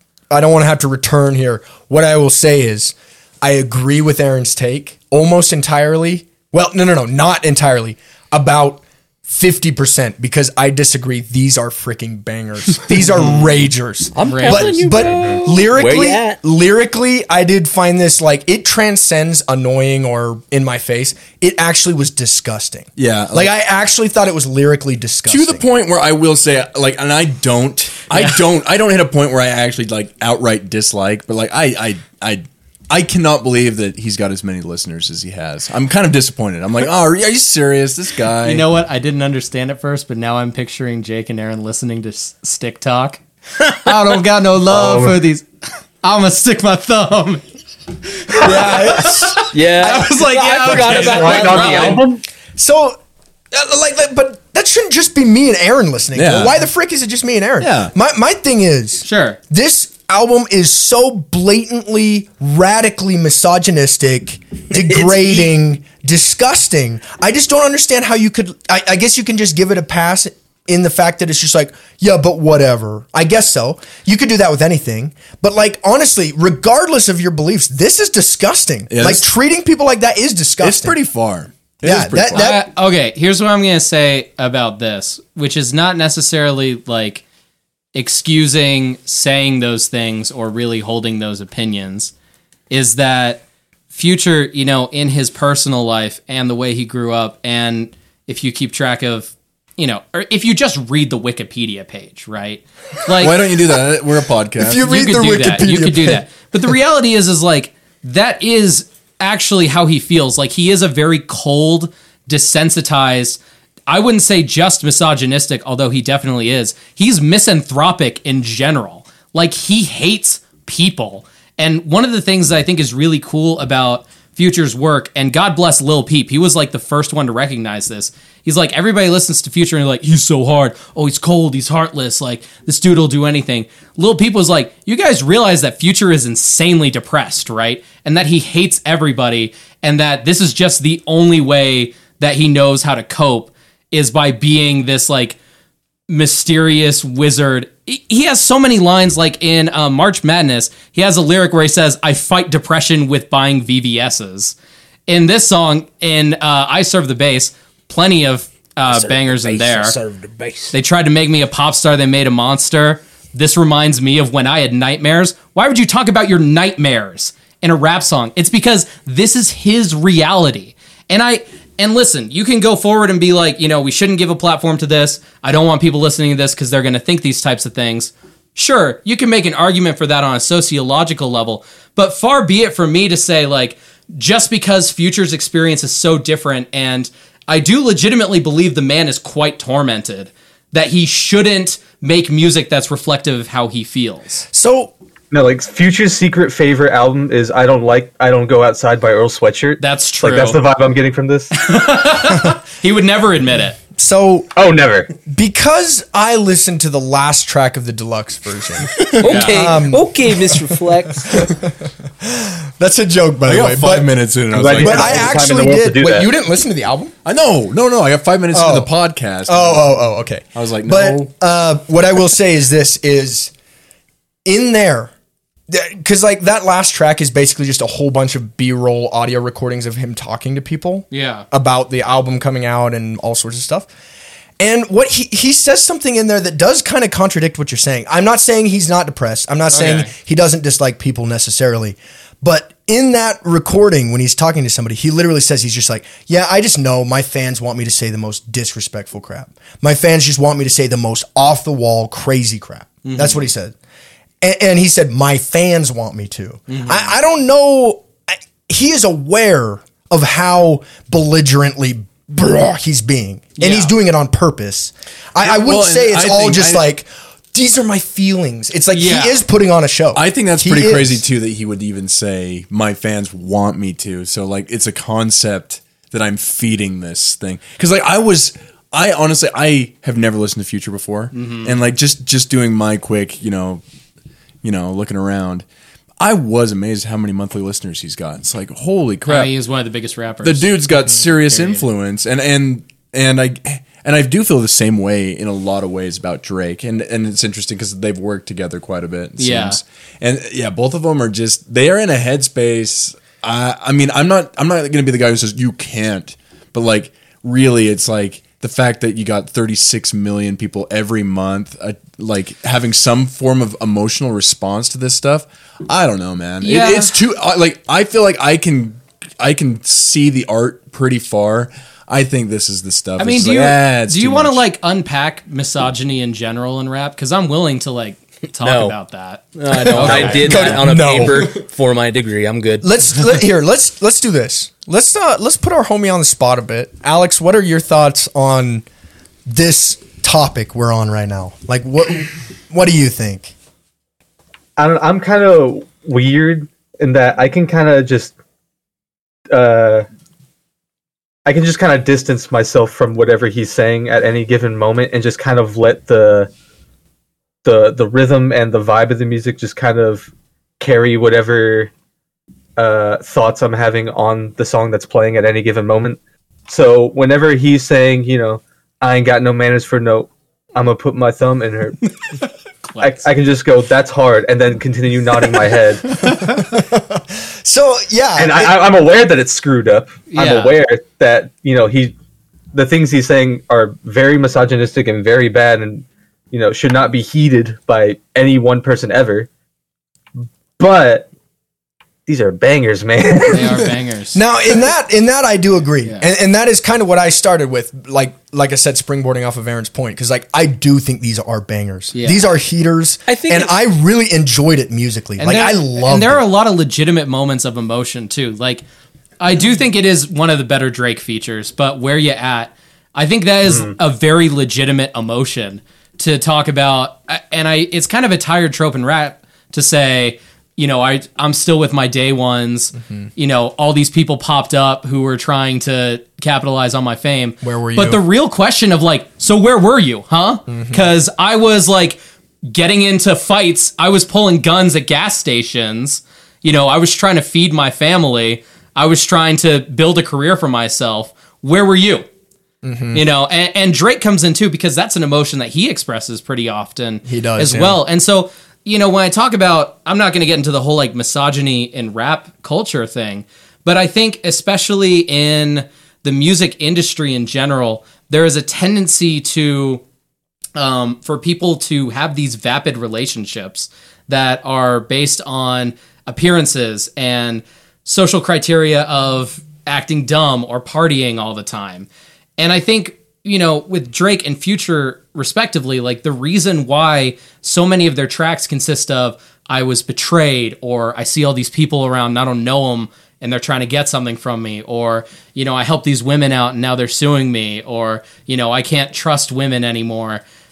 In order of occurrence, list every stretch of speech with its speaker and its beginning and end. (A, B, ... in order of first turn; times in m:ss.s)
0:00.3-0:25.6 A
0:14.2-0:16.4 B
0:14.2-0:14.7 C
0:23.0-0:23.5 D
0:25.3-0:38.7 D
0:28.1-0:28.4 C
0:38.4-0:45.5 C
0:44.7-0:45.2 E
0:46.0-0:47.4 C
0:48.2-0:52.0 C
0:48.3-0:50.7 A
0:49.5-0:52.0 B
0:50.9-0:52.2 E
0:52.6-0:53.0 A
0:53.5-1:21.0 A
0:56.2-0:56.6 D
0:57.6-0:57.9 D
0:59.0-0:59.4 C
1:18.9-1:19.2 D
1:20.6-1:22.6 D
1:21.8-1:22.6 A
1:22.3-1:27.2 C
1:27.9-1:32.1 C
1:32.7-1:43.5 C
1:43.2-1:44.9 D
1:44.6-1:46.2 A
1:44.8-2:25.4 C
2:26.1-2:34.6 C
2:35.1-2:40.0 C
2:38.9-2:40.7 B
2:40.7-3:14.4 C
3:14.5-3:14.9 A
3:15.3-3:21.5 E
3:19.8-3:20.6 C
3:21.5-3:23.8 C
3:24.0-3:24.5 A
3:24.6-3:25.1 E
3:25.3-3:30.2 A
3:29.1-3:31.5 B
3:29.2-3:29.6 C
3:31.3-3:34.2 A
3:33.4-3:35.5 D
3:34.5-3:36.3 E
3:34.7-3:37.1 A
3:37.2-3:40.0 D
3:38.5-3:38.9 A
3:39.5-3:43.5 A
3:40.6-3:41.3 D
3:44.4-3:45.1 A
3:45.7-3:53.9 A
3:51.1-3:51.5 C
3:54.6-4:13.8 A
3:59.7-4:00.1 C
4:13.0-4:13.4 C
4:14.4-4:31.2 A
4:16.7-4:17.1 C
4:23.6-4:23.9 C
4:25.4-4:26.9 D
4:28.9-4:29.4 C
4:30.2-4:43.8 D
4:41.3-4:41.8 C
4:44.6-4:45.6 D
4:46.2-4:49.5 D
4:49.2-4:51.9 C
4:50.4-5:24.6 D
4:59.4-4:59.8 C
5:16.6-5:17.2 C
5:23.2-5:30.8 C
5:28.6-5:29.0 B
5:29.6-5:32.9 B
5:30.0-5:31.5 A
5:30.1-5:30.5 D
5:32.8-5:38.8 A
5:39.5-5:43.5 A
5:44.8-5:48.3 E
5:49.5-5:50.1 E
5:51.4-5:56.5 E
5:57.6-6:01.9 E
6:02.8-6:12.1 E
6:12.9-6:13.2 C
6:13.0-6:16.2 E
6:16.2-6:18.8 A
6:18.4-6:22.1 E
6:20.3-6:20.7 C
6:22.7-6:29.5 E
6:30.8-6:31.3 E
6:32.3-6:34.0 E
6:33.5-6:34.4 C
6:34.3-6:46.4 A
6:42.1-6:42.4 C
6:43.3-6:43.7 B
6:45.4-6:48.8 C
6:49.4-7:22.3 C
6:53.7-6:53.9 E
7:07.6-7:08.2 A
7:10.7-7:11.1 A
7:22.8-7:23.2 A
7:23.1-7:40.0 C
7:27.2-7:28.0 A
7:40.8-8:10.4 C